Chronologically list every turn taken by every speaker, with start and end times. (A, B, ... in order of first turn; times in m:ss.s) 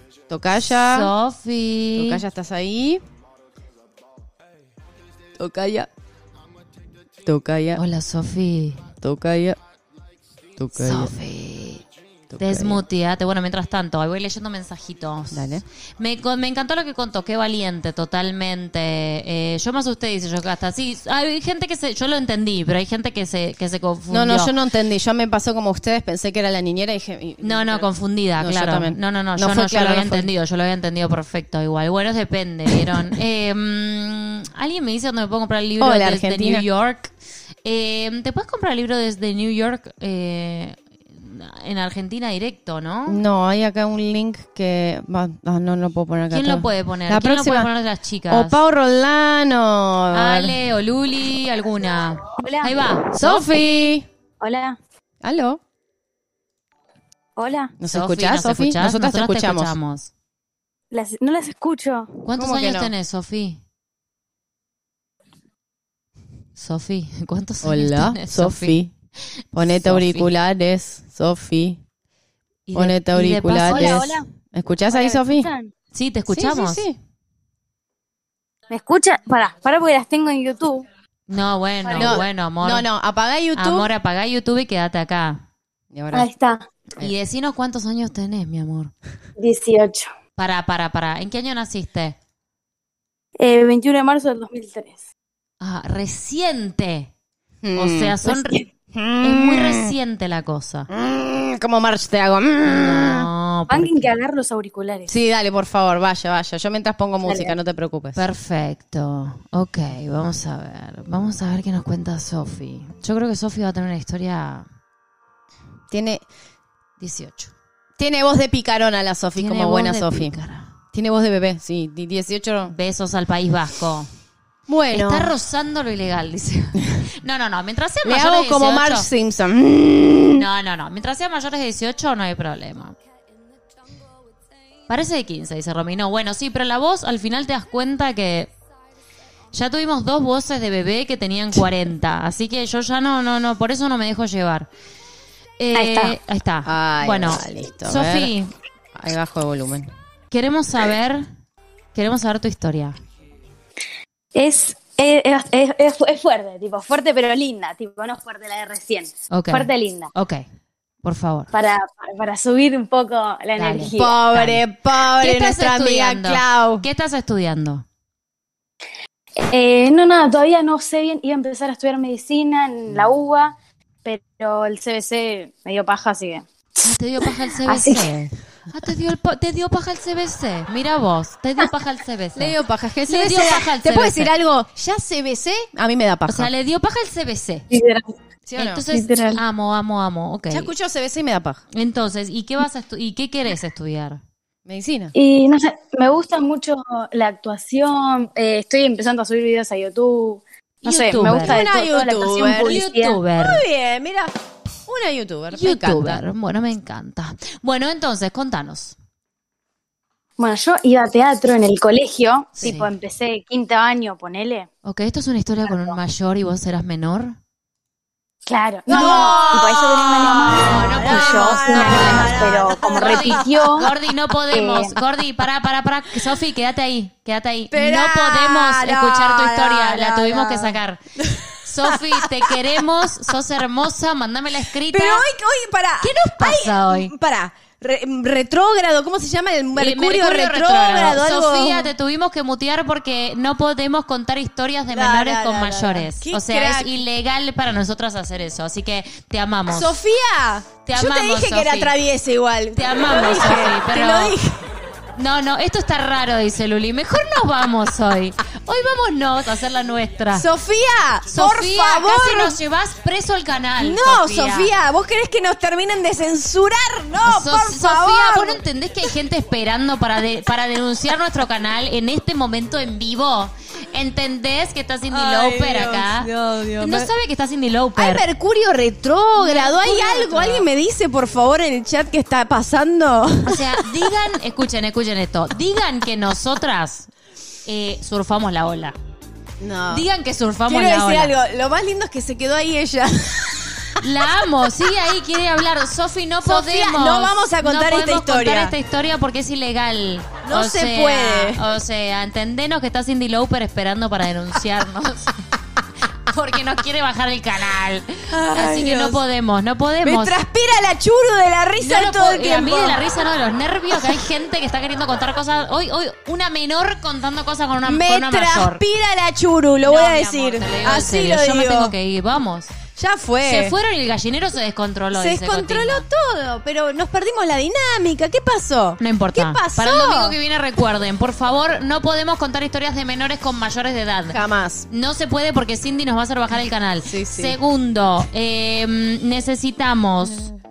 0:00.3-0:01.1 A
0:00.6-0:02.2 B
0:01.9-0:03.0 A
0:05.4-0:05.9 A
0:07.2-0:07.8 A
0:07.7-0:08.9 B
0:09.0-0:09.6 A
0:10.6-0:11.1 A
0:10.8-0:11.8 B
0:12.3-0:12.8 A
0:12.4-0:24.5 B
0:15.3-0:15.6 A
0:24.1-0:30.3 A
0:27.4-0:37.1 B
0:35.8-0:36.6 A
0:37.6-0:43.2 B
0:43.1-0:47.7 A
0:46.3-0:48.6 B
0:48.3-0:50.6 A
0:50.1-0:53.9 B
0:52.4-0:52.8 C
0:53.1-0:54.0 A
0:54.4-0:54.8 C
0:55.2-0:55.6 A
0:57.4-0:57.7 C
0:57.8-0:59.8 A
0:57.9-1:00.1 B
1:00.9-1:02.2 C
1:02.2-1:03.6 B
1:02.3-1:02.9 A
1:06.6-1:08.8 B
1:07.6-1:08.9 A
1:09.5-1:11.8 A
1:09.6-1:10.3 B
1:12.7-1:14.1 B
1:12.7-1:15.5 A
1:13.7-1:14.3 C
1:14.9-1:15.7 C
1:15.9-1:16.9 B
1:16.3-1:17.0 A
1:18.7-1:20.8 C
1:21.3-1:22.9 B
1:21.8-1:22.2 C
1:22.0-1:23.9 A
1:23.5-1:25.4 B
1:25.9-1:26.3 A
1:26.1-1:26.7 C
1:27.0-1:28.9 B
1:29.4-1:30.1 C
1:30.4-1:32.2 B
1:33.4-1:35.0 C
1:35.6-1:37.1 B
1:37.6-1:38.4 A
1:37.7-1:38.6 B
1:38.9-1:39.9 A
1:39.2-1:40.9 B
1:40.9-1:43.3 A
1:42.6-1:44.1 B
1:43.7-1:45.1 C
1:45.1-1:48.2 A
1:47.2-1:47.5 C
1:48.1-1:54.7 B
1:55.9-1:56.2 A
1:57.0-1:57.5 B
1:58.0-2:00.3 A
1:59.4-2:00.7 B
2:00.9-2:02.7 A
2:02.7-2:04.1 B
2:04.7-2:05.3 A
2:04.9-2:09.1 B
2:08.0-2:10.4 A
2:10.3-2:12.9 B
2:14.9-2:18.5 B
2:19.5-2:24.7 B
2:25.6-2:28.5 B
2:25.7-2:26.2 C
2:26.6-2:28.3 A
2:28.9-2:29.9 A
2:30.3-2:31.3 B
2:31.9-2:33.0 B
2:34.3-2:40.1 C
2:39.3-2:40.4 B
2:41.0-2:41.5 B
2:41.5-2:44.2 C
2:43.6-2:47.8 B
2:43.9-2:46.8 A
2:49.4-2:56.4 C
2:56.8-3:04.3 B
2:57.6-2:58.1 C
3:02.3-3:06.5 A
3:06.3-3:07.6 B
3:07.7-3:08.2 C
3:08.5-3:08.8 A
3:08.6-3:10.7 B
3:08.9-3:09.4 C
3:10.5-3:11.6 A
3:11.7-3:14.2 B
3:14.6-3:15.1 A
3:15.1-3:23.2 C
3:20.8-3:21.6 B
3:20.8-3:24.3 A
3:22.4-3:23.6 B
3:24.9-3:26.2 A
3:25.5-3:29.0 B
3:30.4-3:34.7 C
3:32.6-3:32.9 B
3:34.8-3:37.4 B
3:35.7-3:35.9 C
3:38.5-3:43.9 C
3:38.9-3:43.9 A
3:38.9-3:51.0 B
3:44.5-3:45.0 C
3:47.7-3:53.3 A
3:51.6-3:55.2 B
3:54.9-4:01.9 A
3:56.0-3:57.1 B
3:59.8-4:10.0 B
4:04.9-4:06.9 A
4:09.7-4:14.6 A
4:10.8-4:11.9 B
4:12.7-4:14.4 B
4:15.2-4:20.5 B
4:20.3-4:22.6 A
4:21.3-4:24.7 B
4:23.8-4:29.1 A
4:27.2-4:38.3 B
4:35.1-4:37.1 A
4:38.0-4:44.1 A
4:39.4-4:40.7 B
4:43.4-4:47.1 B
4:47.6-4:49.0 B
4:49.6-4:50.0 A
4:49.9-4:51.3 B
4:50.7-4:54.9 A
4:54.0-5:05.6 B
4:56.4-4:58.8 A
5:00.4-5:01.7 A
5:06.1-5:10.4 B
5:08.3-5:09.2 A
5:10.0-5:13.0 A
5:11.8-5:18.8 B
5:13.9-5:14.2 A
5:17.8-5:21.9 A
5:19.8-5:22.8 B
5:22.9-5:23.8 A
5:23.4-5:26.0 B
5:25.1-5:30.4 A
5:29.0-5:40.5 B
5:34.3-5:34.9 A
5:37.0-5:37.6 A
5:40.2-5:40.5 A